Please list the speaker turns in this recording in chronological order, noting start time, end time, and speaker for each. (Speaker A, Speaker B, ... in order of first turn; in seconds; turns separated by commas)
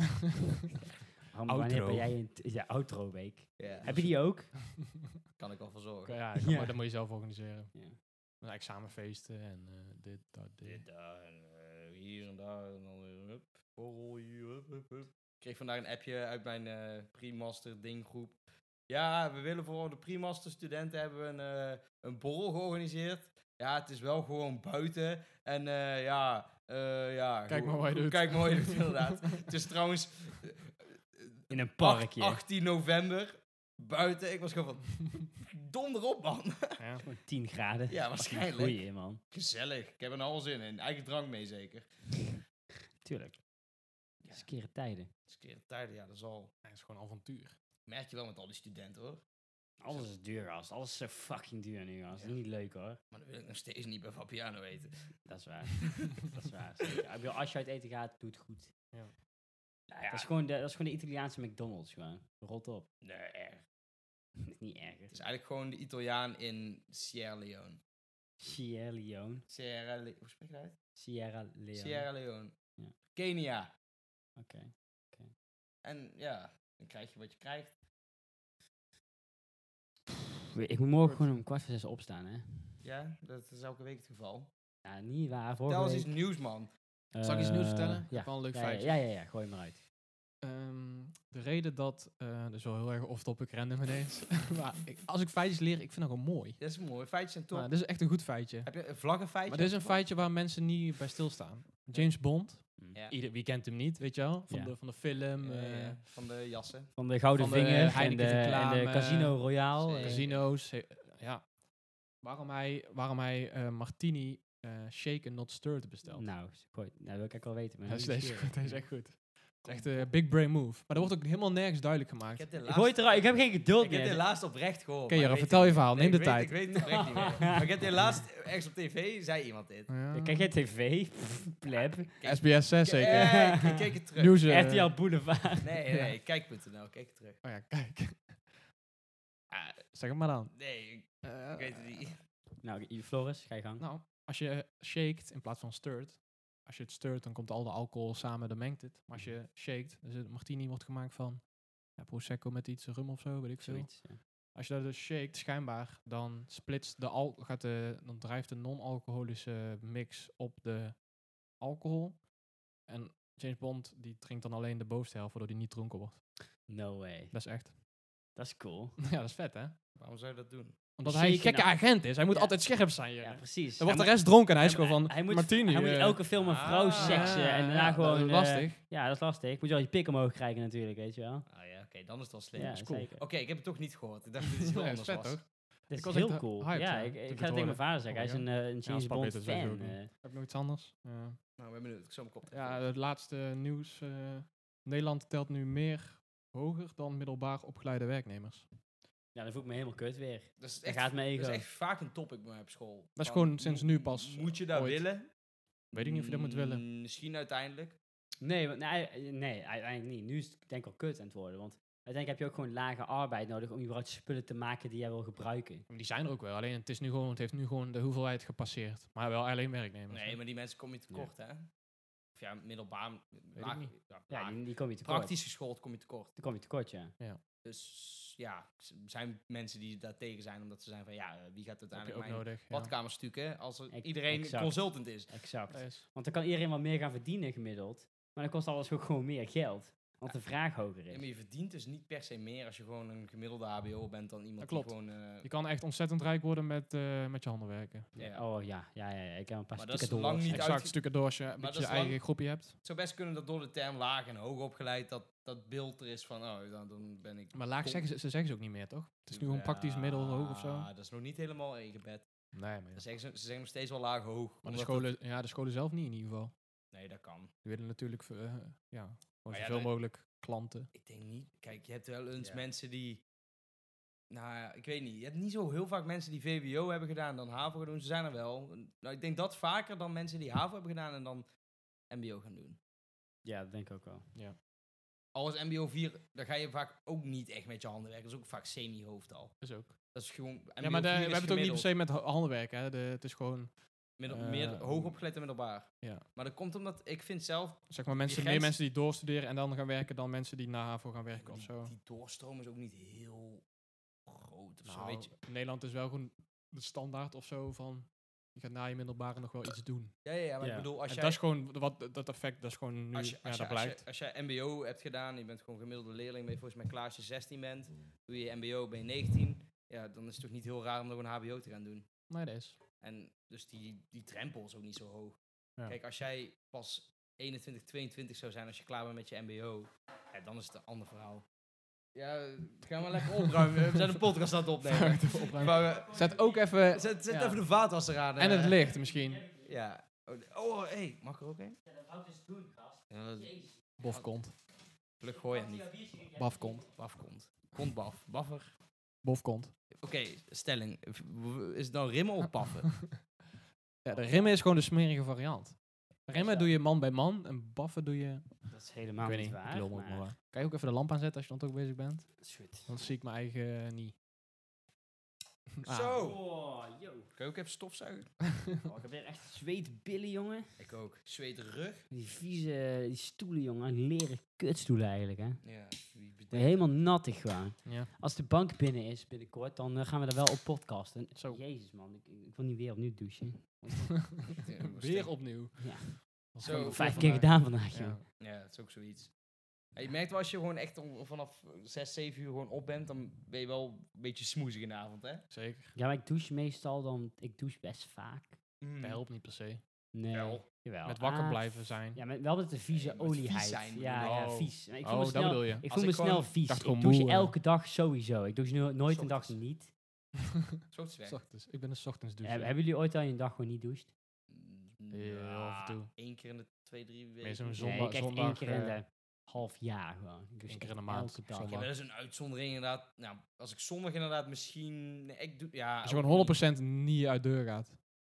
Speaker A: 1.3-4.5, Speaker B: 1.5-2.1, Speaker C: 3.6-4.2, Speaker C: 5.4-6.2, Speaker B: 6.1-7.8, Speaker A: 6.3-6.8, Speaker B: 8.4-10.8, Speaker C: 10.6-36.8, Speaker B: 27.5-29.4, Speaker A: 31.5-32.4, Speaker B: 36.8-37.0, Speaker A: 37.0-39.2, Speaker C: 37.9-41.9, Speaker A: 43.0-43.4, Speaker C: 44.2-44.5, Speaker A: 44.3-45.1, Speaker C: 45.3-46.5, Speaker B: 46.6-47.5, Speaker C: 47.9-49.2, Speaker A: 49.8-53.0, Speaker C: 53.1-55.1, Speaker A: 55.3-58.7, Speaker C: 59.9-60.3, Speaker A: 60.1-62.9, Speaker C: 63.0-63.6, Speaker A: 64.4-65.2, Speaker C: 65.1-67.8, Speaker A: 68.4-69.4, Speaker C: 69.5-70.8, Speaker A: 71.0-72.1, Speaker C: 71.7-72.5, Speaker C: 73.1-73.7, Speaker A: 74.4-75.3, Speaker C: 75.8-77.8, Speaker A: 80.6-82.8, Speaker C: 82.8-84.5, Speaker A: 84.8-86.1, Speaker C: 85.7-86.7, Speaker A: 87.1-89.8, Speaker B: 87.2-89.0, Speaker B: 90.4-96.6, Speaker C: 96.6-97.7, Speaker B: 97.5-98.8, Speaker C: 98.6-100.0, Speaker B: 99.5-106.0, Speaker A: 104.5-104.7, Speaker C: 105.4-106.9, Speaker A: 107.0-110.2, Speaker B: 107.4-109.5, Speaker C: 109.8-110.5, Speaker B: 110.0-111.5, Speaker B: 112.2-116.3, Speaker A: 116.2-118.9, Speaker B: 117.9-122.5, Speaker C: 119.7-120.1, Speaker C: 122.3-129.9, Speaker A: 122.7-124.2, Speaker B: 125.1-127.1, Speaker A: 126.7-127.8, Speaker B: 129.9-130.5, Speaker A: 130.1-132.2, Speaker C: 132.2-134.4, Speaker B: 132.2-133.5, Speaker A: 133.0-133.9, Speaker B: 134.2-134.9, Speaker A: 134.4-135.9, Speaker C: 135.6-137.4, Speaker B: 137.4-138.6, Speaker C: 139.5-139.8, Speaker B: 139.9-140.6, Speaker C: 140.5-142.2, Speaker B: 141.2-142.0, Speaker A: 142.6-143.8, Speaker B: 143.8-161.0, Speaker A: 153.6-154.2, Speaker B: 161.6-162.3, Speaker B: 162.9-166.3, Speaker A: 166.7-167.3, Speaker B: 167.3-167.7, Speaker A: 168.3-169.0, Speaker B: 169.0-169.7, Speaker C: 170.0-170.8, Speaker B: 171.0-176.2, Speaker A: 171.1-181.5, Speaker C: 176.4-177.5, Speaker B: 176.9-178.8, Speaker C: 181.5-185.4, Speaker A: 182.6-183.2, Speaker B: 182.7-183.1, Speaker B: 184.5-191.4, Speaker A: 185.9-190.1, Speaker C: 191.6-192.8, Speaker B: 192.5-198.7, Speaker A: 199.3-201.6, Speaker C: 200.6-205.3, Speaker B: 203.2-205.1, Speaker B: 205.9-206.8, Speaker C: 205.9-208.0, Speaker A: 208.4-215.9, Speaker B: 215.9-220.4, Speaker C: 220.1-221.7, Speaker C: 222.4-226.3, Speaker B: 223.6-223.9, Speaker A: 224.3-225.3, Speaker A: 226.4-227.1, Speaker C: 227.7-235.3, Speaker B: 231.9-232.9, Speaker A: 233.9-241.2, Speaker B: 235.7-236.1, Speaker C: 241.1-245.5, Speaker B: 244.6-248.1, Speaker C: 248.2-248.5, Speaker A: 248.2-250.8, Speaker C: 249.8-258.1, Speaker B: 250.5-252.8, Speaker B: 257.5-260.9, Speaker C: 259.3-262.3, Speaker B: 262.5-263.0, Speaker C: 262.9-265.1, Speaker B: 264.6-266.5, Speaker C: 266.9-267.5, Speaker B: 267.6-270.9, Speaker C: 269.5-269.9, Speaker C: 270.9-273.2, Speaker C: 274.3-281.5, Speaker C: 282.1-282.8, Speaker A: 283.4-284.3, Speaker C: 285.4-291.9, Speaker B: 289.6-290.0, Speaker B: 290.8-295.2, Speaker C: 294.2-298.8, Speaker B: 296.0-296.3, Speaker B: 297.9-301.9, Speaker C: 301.4-303.6, Speaker C: 304.3-305.4, Speaker B: 304.9-310.2, Speaker C: 310.2-311.4, Speaker A: 310.6-310.9, Speaker B: 311.1-314.0, Speaker C: 313.1-322.1, Speaker B: 322.3-322.8, Speaker C: 323.0-331.5, Speaker C: 332.1-336.2, Speaker B: 334.8-337.5, Speaker A: 335.6-337.6, Speaker C: 336.9-338.8, Speaker B: 338.4-339.5, Speaker A: 339.0-339.6, Speaker C: 339.6-341.8, Speaker A: 341.9-343.8, Speaker C: 343.1-344.3, Speaker B: 344.0-344.6, Speaker C: 345.2-346.1, Speaker A: 345.3-346.9, Speaker B: 346.3-346.9, Speaker C: 346.9-348.7, Speaker B: 349.2-349.7, Speaker C: 349.9-353.0, Speaker B: 354.0-364.1, Speaker A: 354.2-354.4, Speaker A: 356.3-356.7, Speaker A: 358.7-360.3, Speaker A: 362.4-362.9, Speaker B: 365.8-366.2, Speaker C: 365.8-366.4, Speaker A: 366.2-367.3, Speaker C: 367.4-368.4, Speaker A: 368.8-370.8, Speaker C: 370.8-372.1, Speaker A: 372.1-375.6, Speaker C: 375.6-376.8, Speaker A: 376.5-384.5, Speaker B: 377.9-378.1, Speaker B: 381.4-381.6, Speaker B: 384.3-388.2, Speaker C: 384.6-385.5, Speaker A: 385.8-388.2, Speaker C: 386.6-387.4, Speaker C: 388.4-389.4, Speaker C: 389.9-395.4, Speaker B: 395.5-395.9, Speaker A: 395.9-398.6, Speaker C: 398.8-399.2, Speaker B: 399.0-399.8, Speaker A: 400.1-409.9, Speaker C: 400.3-400.6, Speaker B: 401.1-402.2, Speaker C: 402.9-404.4, Speaker B: 404.2-405.9, Speaker C: 405.9-406.5, Speaker B: 406.7-407.5, Speaker C: 409.1-409.6, Speaker C: 410.9-411.4, Speaker B: 411.3-412.7, Speaker A: 412.4-414.1, Speaker C: 414.5-417.9, Speaker B: 415.1-416.1, Speaker B: 417.4-419.0, Speaker A: 417.8-421.8, Speaker B: 420.7-421.9, Speaker C: 421.7-426.6, Speaker B: 426.0-428.0